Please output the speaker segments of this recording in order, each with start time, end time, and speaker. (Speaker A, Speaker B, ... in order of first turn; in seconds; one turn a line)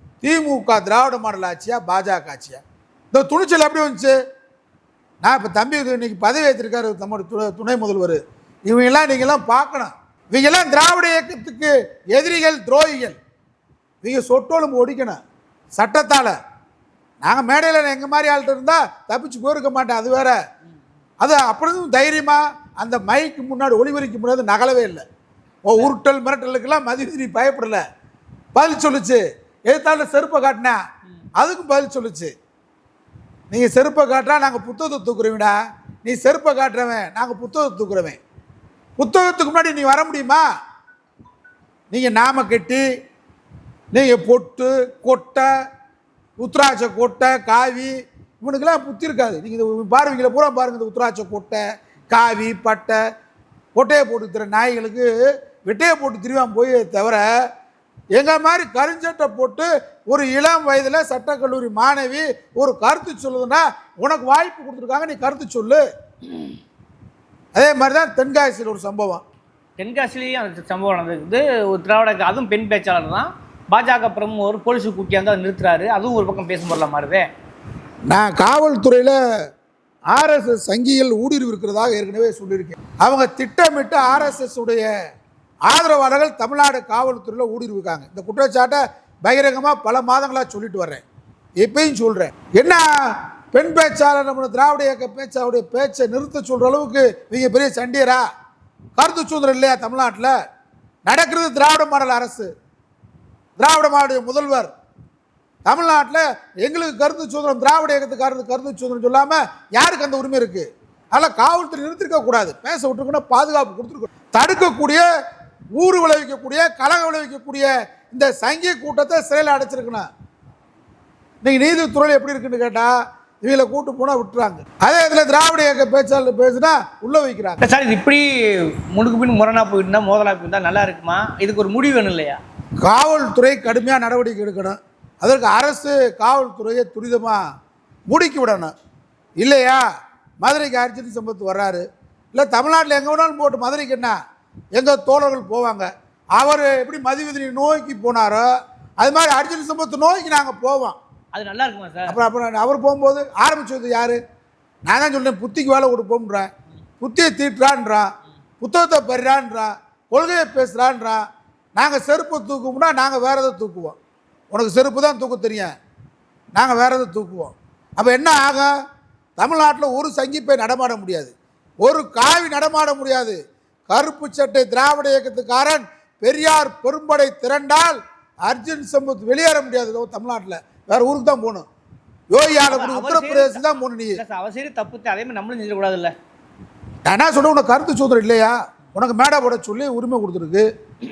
Speaker A: 0.2-4.2
Speaker A: 5.2-13.2
Speaker A: 14.0-15.2
Speaker A: 15.8-16.4
Speaker A: 17.2-20.4
Speaker A: 21.2-25.0
Speaker A: 25.6-27.8
Speaker A: 28.5-30.8
Speaker A: 31.4-32.3
Speaker A: 33.5-38.2
Speaker A: 39.0-40.5
Speaker A: 41.9-42.8
Speaker A: 43.9-45.5
Speaker A: 46.4-53.0
Speaker A: 53.8-57.3
Speaker A: 58.1-65.8
Speaker A: 67.5-69.2
Speaker B: 69.8-77.3
Speaker A: 78.1-79.2
Speaker A: 80.1-84.9
Speaker A: 85.7-91.0
Speaker A: 91.6-98.2
Speaker A: 99.0-100.3
Speaker A: 101.1-102.5
Speaker A: 103.6-104.7
Speaker A: 105.7-115.1
Speaker A: 115.8-120.1
Speaker A: 121.4-127.6
Speaker B: 127.6-132.4
Speaker A: 132.8-137.4
Speaker A: 138.1-138.7
Speaker A: 139.4-139.8
Speaker A: 140.4-144.2
Speaker A: 144.8-148.5
Speaker A: 149.0-151.0
Speaker B: 151.3-152.2
Speaker A: 152.1-154.2
Speaker A: 154.9-156.5
Speaker A: 157.0-161.2
Speaker A: 161.8-164.0
Speaker A: 164.5-165.7
Speaker A: 166.6-168.7
Speaker A: 169.4-173.4
Speaker A: 173.9-181.7
Speaker A: 182.3-184.2
Speaker B: 182.7-186.1
Speaker A: 187.1-190.7